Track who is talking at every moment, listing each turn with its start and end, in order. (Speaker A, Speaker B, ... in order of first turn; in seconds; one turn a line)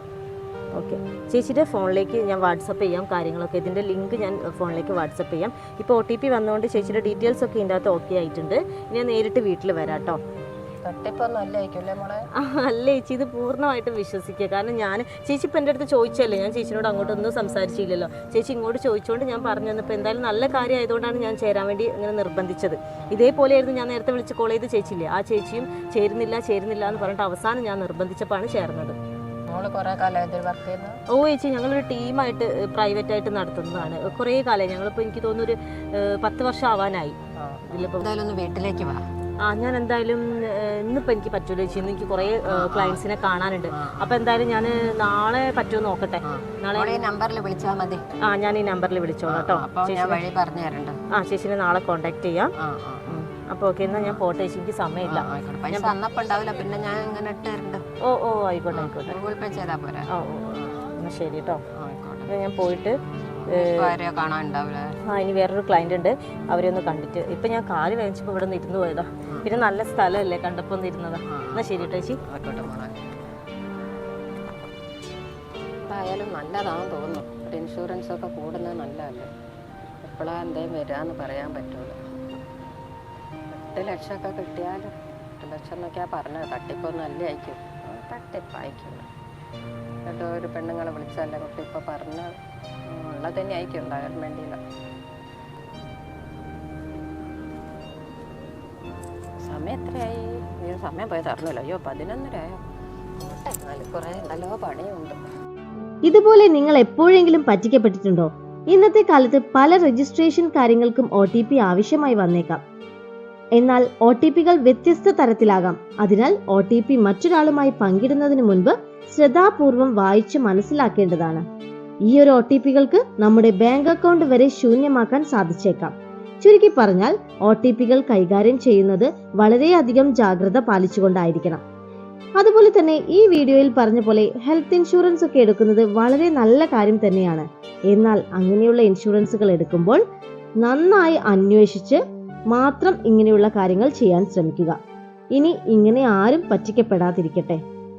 Speaker A: 0.7-10.2
Speaker B: 10.8-12.2
Speaker A: 12.3-28.9
Speaker B: 17.0-17.2
Speaker B: 29.5-31.0
Speaker A: 31.1-37.2
Speaker B: 37.4-39.0
Speaker A: 37.7-38.0
Speaker A: 39.4-47.0
Speaker B: 42.5-43.0
Speaker B: 43.7-44.1
Speaker B: 46.2-48.0
Speaker A: 48.2-50.2
Speaker B: 49.2-51.0
Speaker A: 51.1-52.5
Speaker B: 52.6-53.2
Speaker A: 53.1-55.9
Speaker B: 53.9-54.2
Speaker B: 55.0-57.8
Speaker A: 58.0-59.2
Speaker B: 58.7-60.1
Speaker A: 60.1-61.6
Speaker B: 61.7-62.3
Speaker A: 62.3-63.9
Speaker B: 63.2-65.0
Speaker A: 65.0-72.2
Speaker B: 71.3-73.2
Speaker B: 75.9-79.3
Speaker B: 80.0-82.0
Speaker B: 83.5-89.1
Speaker B: 90.1-92.3
Speaker B: 92.9-94.6
Speaker B: 99.5-102.6
Speaker B: 103.2-105.2
Speaker C: 106.1-112.6
Speaker C: 113.6-121.4
Speaker C: 122.1-131.6
Speaker C: 132.4-140.0
Speaker C: 140.6-144.8
Speaker C: 145.3-147.6